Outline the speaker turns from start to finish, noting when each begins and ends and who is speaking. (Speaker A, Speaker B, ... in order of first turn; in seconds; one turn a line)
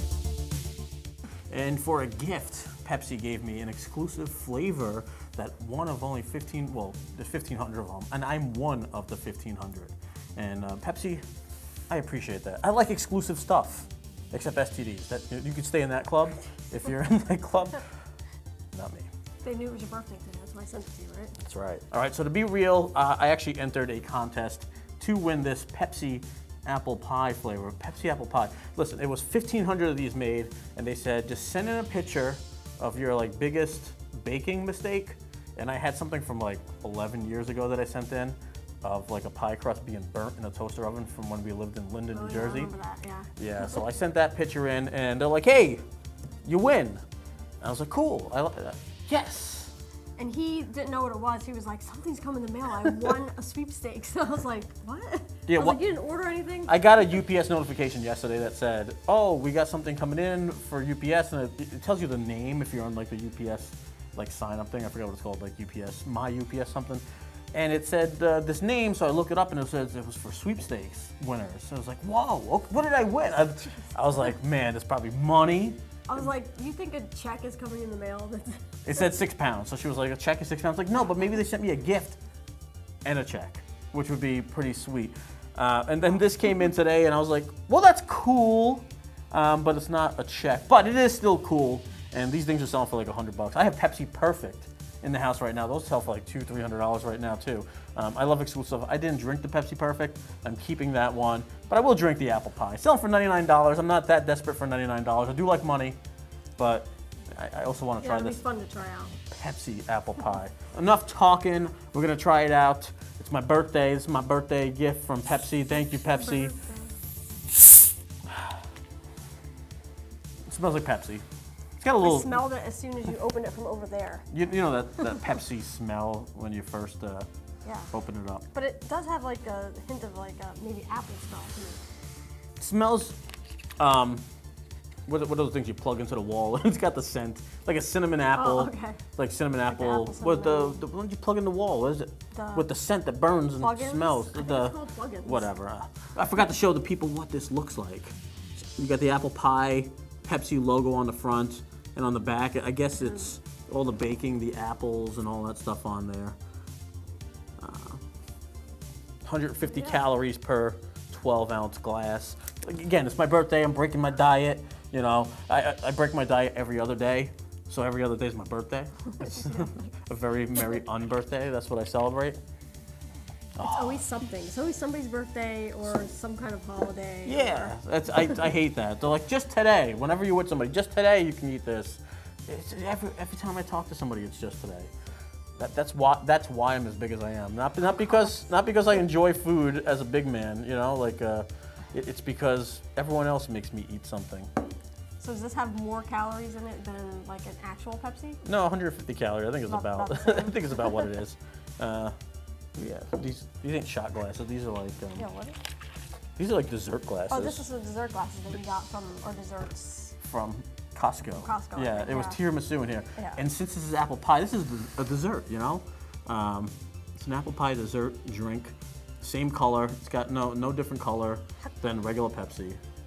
Speaker A: 1.5-11.2
Speaker A: 11.9-17.8
Speaker A: 18.7-19.1
Speaker B: 19.4-21.4
Speaker A: 21.4-42.7
Speaker B: 42.1-43.3
Speaker A: 43.4-45.8
Speaker A: 46.4-47.0
Speaker A: 47.6-49.7
Speaker B: 50.2-56.7
Speaker A: 55.5-55.8
Speaker A: 56.7-75.8
Speaker B: 76.1-78.8
Speaker A: 78.8-82.2
Speaker A: 83.0-106.0
Speaker A: 106.6-108.4
Speaker B: 108.0-109.2
Speaker A: 109.3-116.5
Speaker B: 116.1-116.9
Speaker A: 120.5-121.2
Speaker A: 121.8-122.4
Speaker B: 122.0-124.2
Speaker A: 124.3-127.3
Speaker B: 127.6-127.9
Speaker A: 127.9-128.4
Speaker B: 128.5-131.8
Speaker A: 132.6-133.2
Speaker A: 133.8-134.2
Speaker A: 135.1-156.4
Speaker B: 138.3-139.0
Speaker B: 139.7-140.8
Speaker B: 142.3-142.7
Speaker B: 143.6-145.5
Speaker A: 157.6-158.0
Speaker A: 159.2-172.4
Speaker B: 159.7-160.0
Speaker B: 169.2-169.7
Speaker A: 173.6-174.0
Speaker B: 173.6-178.3
Speaker A: 177.2-184.9
Speaker A: 185.6-194.5
Speaker B: 187.9-189.0
Speaker B: 195.2-198.4
Speaker A: 198.4-202.2
Speaker B: 199.7-201.1
Speaker A: 202.8-205.2
Speaker B: 205.2-205.6
Speaker A: 206.4-207.6
Speaker B: 207.3-210.2
Speaker A: 210.2-222.8
Speaker B: 211.4-212.4